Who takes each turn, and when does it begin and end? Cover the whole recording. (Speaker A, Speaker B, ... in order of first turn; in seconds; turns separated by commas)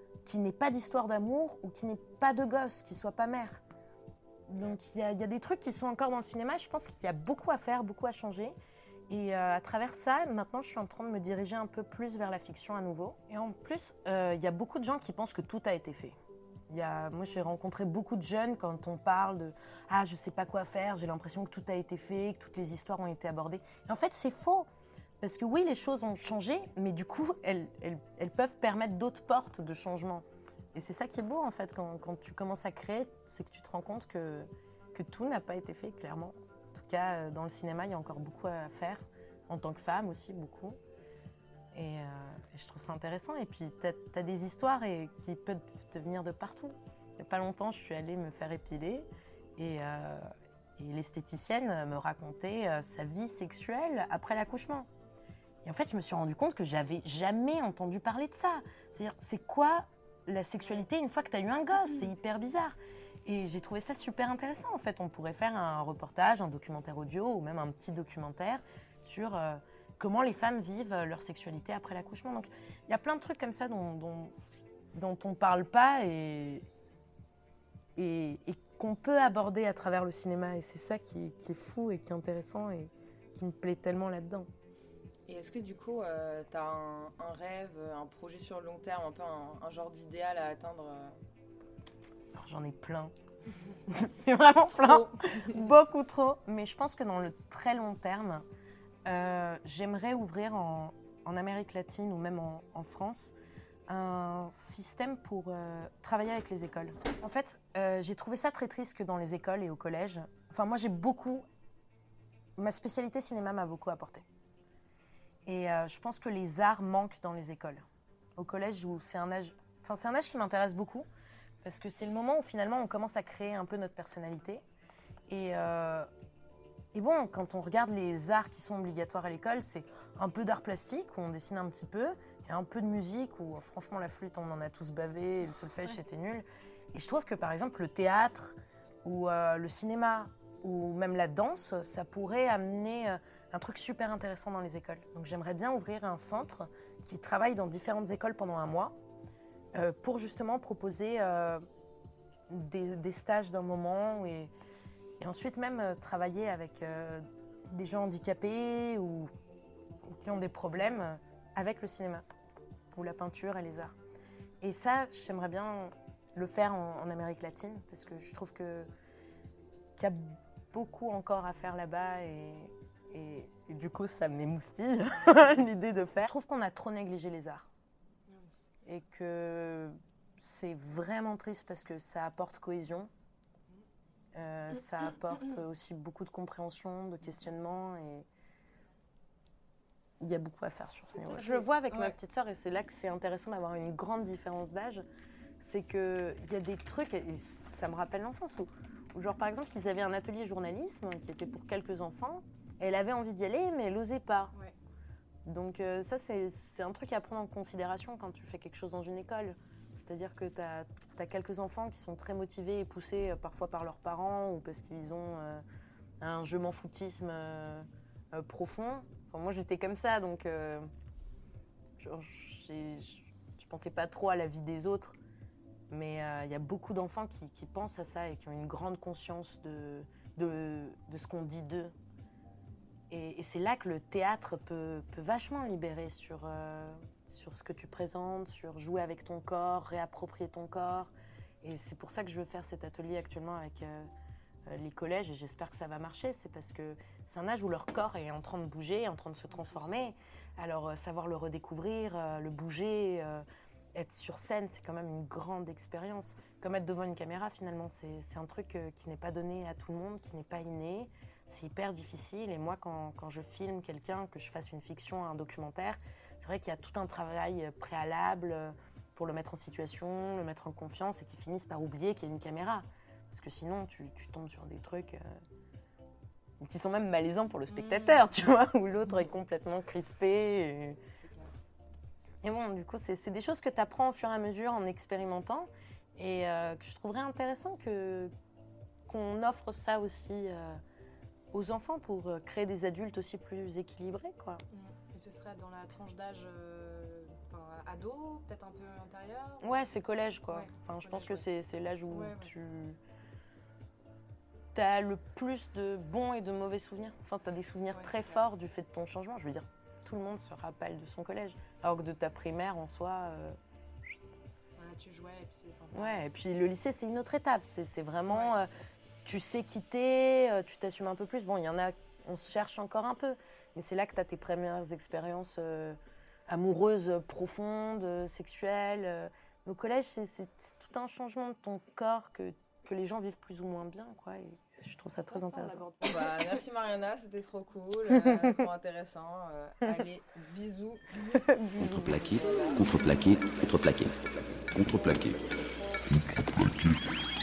Speaker A: 0.2-3.6, Speaker A: 4.5-8.5, Speaker A: 9.1-16.1, Speaker A: 16.7-24.7, Speaker A: 25.2-40.8, Speaker A: 41.7-50.2, Speaker A: 50.8-54.9, Speaker A: 55.6-74.3, Speaker A: 74.9-76.7, Speaker A: 78.0-84.5, Speaker B: 85.3-91.2, Speaker A: 92.3-93.1, Speaker A: 93.8-98.4, Speaker B: 94.8-95.5, Speaker A: 99.0-103.3, Speaker A: 103.9-111.4, Speaker A: 112.6-114.2, Speaker A: 115.5-117.8, Speaker A: 118.4-121.1, Speaker A: 121.6-124.6, Speaker A: 125.3-126.1, Speaker A: 126.9-148.9, Speaker A: 149.8-151.6, Speaker A: 152.5-154.5, Speaker A: 155.2-159.3, Speaker A: 160.1-162.2, Speaker A: 162.9-163.9, Speaker A: 164.6-168.9, Speaker A: 170.0-177.7, Speaker C: 178.3-178.7, Speaker A: 178.8-183.1, Speaker A: 184.3-188.3, Speaker A: 190.2-195.0, Speaker C: 191.0-192.1, Speaker A: 195.6-204.5, Speaker A: 205.4-215.6, Speaker A: 216.2-220.9, Speaker A: 222.0-225.2, Speaker A: 225.9-231.9, Speaker A: 233.1-241.1, Speaker A: 241.6-244.1, Speaker A: 244.7-253.4, Speaker C: 249.5-250.0, Speaker A: 253.9-275.2, Speaker A: 276.6-281.0, Speaker C: 277.7-278.2, Speaker C: 281.1-281.5, Speaker A: 282.4-288.3, Speaker A: 289.1-290.8, Speaker A: 291.5-294.6, Speaker C: 294.7-299.8, Speaker A: 299.6-303.0, Speaker C: 300.5-301.4, Speaker C: 302.1-302.5, Speaker A: 304.7-313.6, Speaker C: 307.9-308.4, Speaker C: 314.8-316.2, Speaker A: 315.9-318.7, Speaker C: 318.3-318.5, Speaker A: 319.2-326.0, Speaker A: 326.5-335.9, Speaker B: 335.3-341.4, Speaker A: 341.3-342.4, Speaker D: 341.8-344.1, Speaker B: 342.1-342.8, Speaker D: 344.7-345.4, Speaker D: 346.6-347.0